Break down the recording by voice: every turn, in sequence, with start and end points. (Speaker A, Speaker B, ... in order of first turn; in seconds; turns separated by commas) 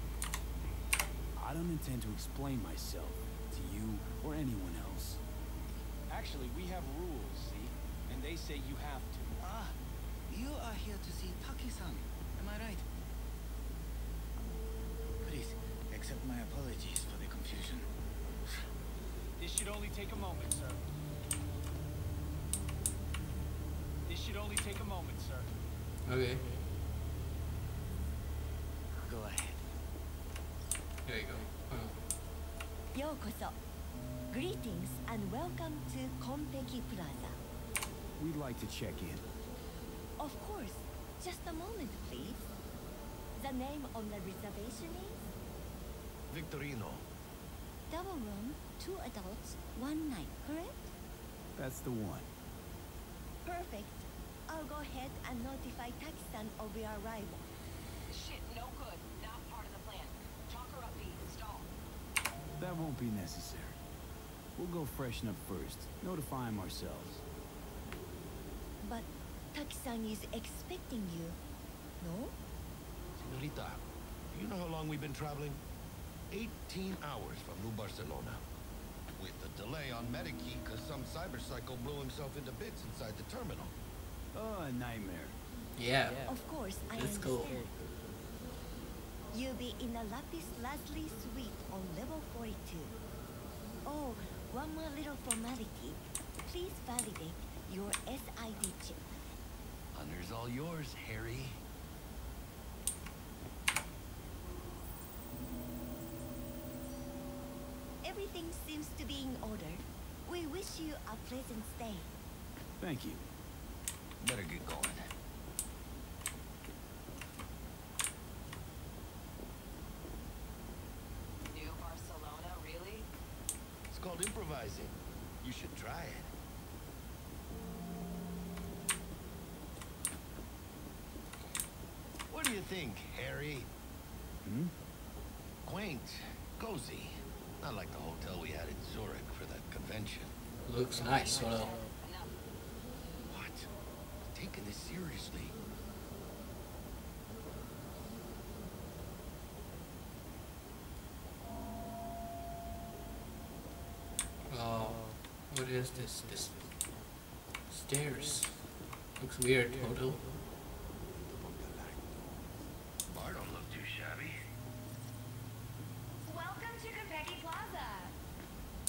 Speaker A: 1.4-5.2, Speaker B: 6.1-9.3, Speaker C: 10.5-12.8, Speaker D: 15.3-17.9, Speaker B: 19.4-20.9, Speaker B: 24.1-25.6, Speaker E: 26.1-26.5, Speaker E: 31.1-31.9, Speaker F: 32.9-33.6, Speaker F: 34.3-37.4, Speaker A: 38.2-39.2, Speaker F: 40.2-42.5, Speaker F: 43.4-45.2, Speaker D: 46.3-47.0, Speaker F: 47.9-50.9, Speaker A: 51.6-52.3, Speaker F: 53.4-57.4, Speaker G: 58.1-61.7, Speaker A: 62.6-63.8, Speaker A: 64.6-67.2, Speaker F: 68.8-71.4, Speaker F: 72.0-72.3, Speaker D: 73.2-75.6, Speaker D: 76.3-78.5, Speaker D: 79.2-83.7, Speaker A: 84.3-85.4, Speaker E: 85.8-86.3, Speaker F: 86.3-87.7, Speaker E: 87.0-87.5, Speaker F: 89.3-93.0, Speaker F: 93.8-99.3, Speaker D: 99.9-101.6, Speaker F: 108.0-112.1, Speaker A: 112.8-113.2, Speaker D: 114.2-115.1, Speaker G: 121.5-123.1, Speaker D: 123.9-126.3, Speaker D: 132.3-133.7, Speaker A: 134.4-134.7, Speaker D: 135.7-140.3, Speaker E: 140.7-141.7, Speaker G: 140.9-142.4, Speaker D: 143.3-143.7, Speaker D: 144.3-145.6, Speaker E: 154.5-156.6, Speaker E: 157.7-158.6, Speaker E: 159.2-160.3, Speaker D: 163.1-164.4, Speaker H: 166.2-168.2